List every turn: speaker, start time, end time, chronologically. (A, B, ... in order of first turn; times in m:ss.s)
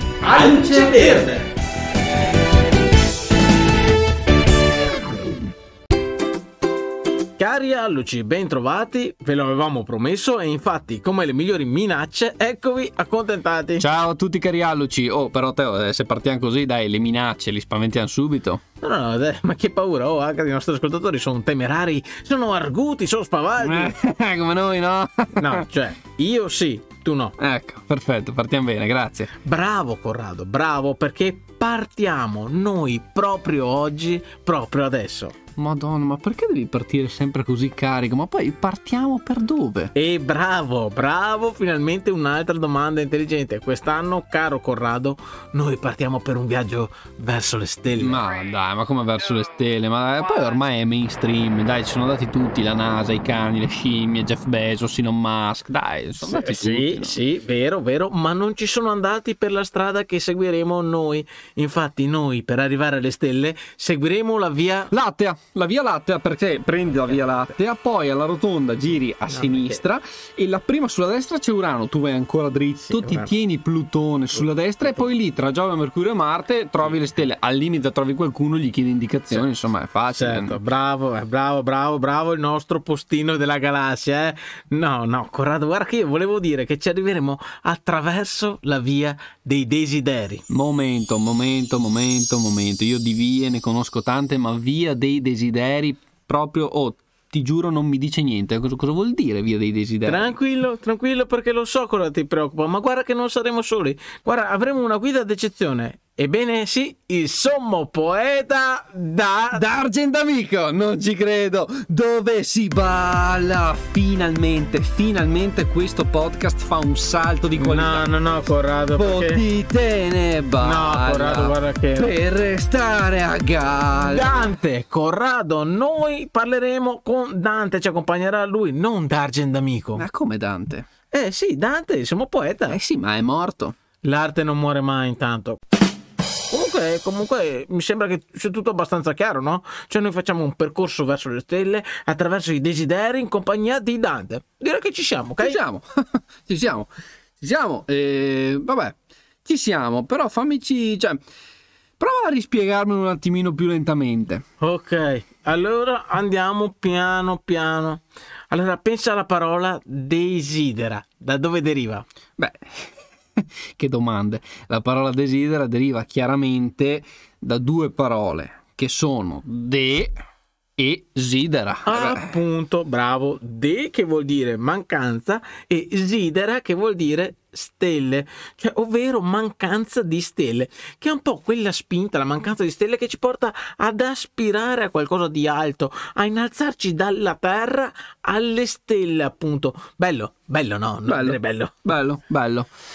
0:00.2-0:01.3 A
0:00.2-0:01.5 B
0:07.4-0:13.9 B
0:13.8-0:18.6 A
0:18.8-0:23.9 B
0:23.6-0:25.7 A
0:25.4-0:27.4 B
0:27.4-0:29.3 A
0:29.4-0:35.4 B
0:35.6-0:39.9 A
0:39.9-0:48.2 B
0:48.0-0:57.2 A
0:56.2-1:04.9 B
1:04.9-1:20.6 A
1:09.3-1:09.8 B
1:12.8-1:13.3 B
1:14.3-1:15.1 B
1:20.1-1:30.4 B
1:30.5-1:40.3 A
1:40.0-1:49.6 B
1:49.5-1:58.1 A
1:57.6-1:59.4 B
1:59.0-2:04.3 A
2:00.6-2:02.1 B
2:04.0-2:10.0 B
2:10.0-2:10.9 A
2:11.1-2:12.8 B
2:12.7-2:13.8 A
2:14.0-2:15.6 B
2:16.5-2:25.6 B
2:25.4-2:26.9 A
2:27.4-2:31.2 A
2:32.0-2:34.4 A
2:34.6-2:42.0 B
2:42.4-2:50.1 A
2:50.8-2:52.4 A
2:51.8-3:11.9 B
3:11.1-3:12.7 A